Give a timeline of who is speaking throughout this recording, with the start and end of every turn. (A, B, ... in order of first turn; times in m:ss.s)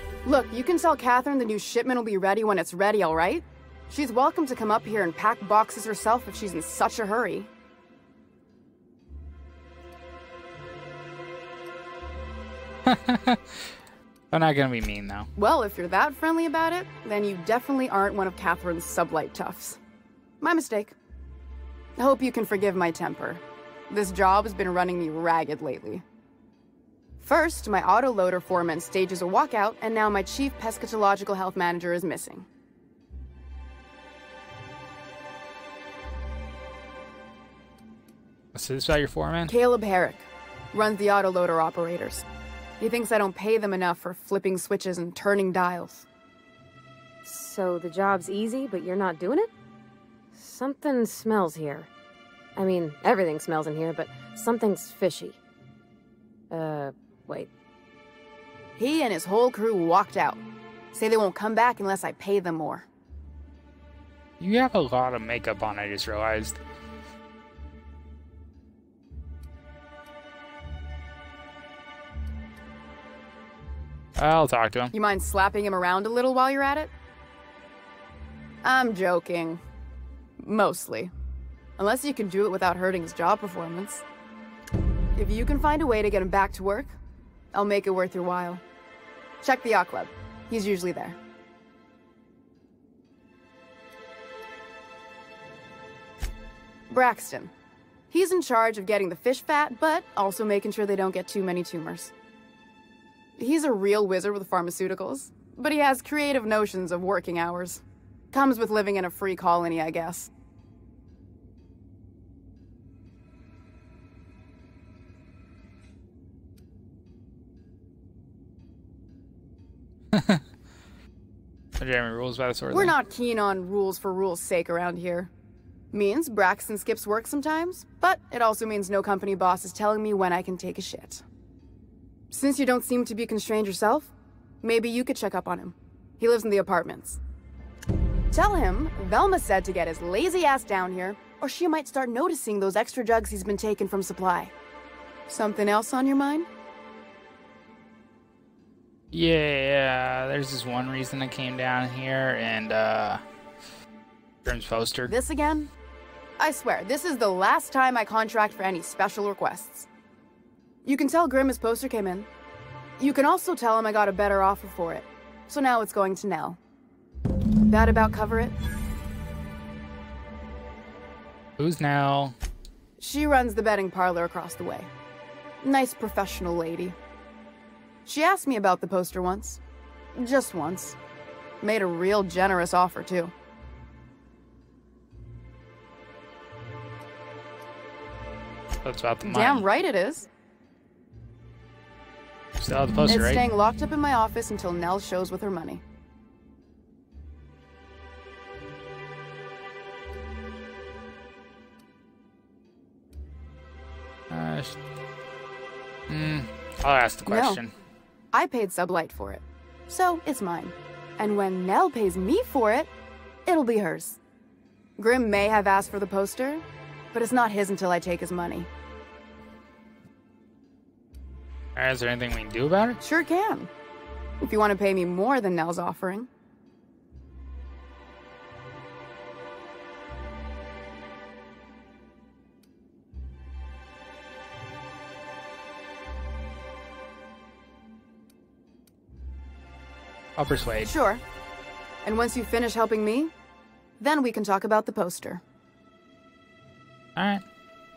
0:00.2-0:07.5 A
0:12.9-0:13.8 B
0:14.3-0:15.3 B
0:15.4-0:19.8 A
0:20.4-0:21.0 A
0:22.0-0:26.0 A
0:27.2-0:32.5 A
0:38.5-0:39.5 B
0:39.5-0:42.2 A
0:42.8-0:46.1 A
0:47.2-0:49.5 C
0:50.4-0:51.9 C
0:52.6-0:55.4 C
0:56.5-0:57.5 C
0:58.8-1:00.4 A
1:00.9-1:02.9 A
1:04.4-1:06.6 B
1:14.2-1:14.9 B
1:14.9-1:16.9 A
1:18.6-1:19.6 A
1:20.4-1:21.1 A
1:21.8-1:24.0 A
1:25.2-1:27.0 A
1:27.5-1:28.6 A
1:29.4-1:31.2 A
1:36.9-1:37.5 A
1:38.1-1:42.1 A
1:43.4-1:50.3 A
2:00.1-2:00.4 B
2:01.8-2:03.0 B
2:02.7-2:05.3 A
2:05.9-2:11.2 A
2:12.3-2:17.2 A
2:18.3-2:24.5 A
2:25.3-2:26.5 A
2:29.1-2:33.2 B
2:34.4-2:35.1 B
2:35.1-2:35.7 A
2:36.4-2:39.9 A
2:40.8-2:42.3 A
2:43.0-2:46.6 A
2:47.7-2:48.6 A
2:51.6-2:52.4 B
2:53.0-2:54.9 A
2:55.6-2:57.0 A
2:58.1-2:59.6 A
3:00.2-3:01.0 A
3:01.6-3:03.3 A
3:08.8-3:09.7 B
3:09.2-3:10.3 A
3:12.6-3:13.5 B
3:13.1-3:15.8 A
3:24.3-3:24.8 B
3:26.1-3:27.7 B
3:27.3-3:27.6 A
3:28.3-3:32.9 A
3:33.5-3:34.2 A
3:35.0-3:38.7 A
3:41.8-3:43.0 B
3:43.0-3:43.7 A
3:44.4-3:46.3 A
4:00.4-4:00.9 B
4:00.8-4:01.2 A
4:02.0-4:03.3 A
4:04.0-4:05.4 A
4:07.2-4:07.4 B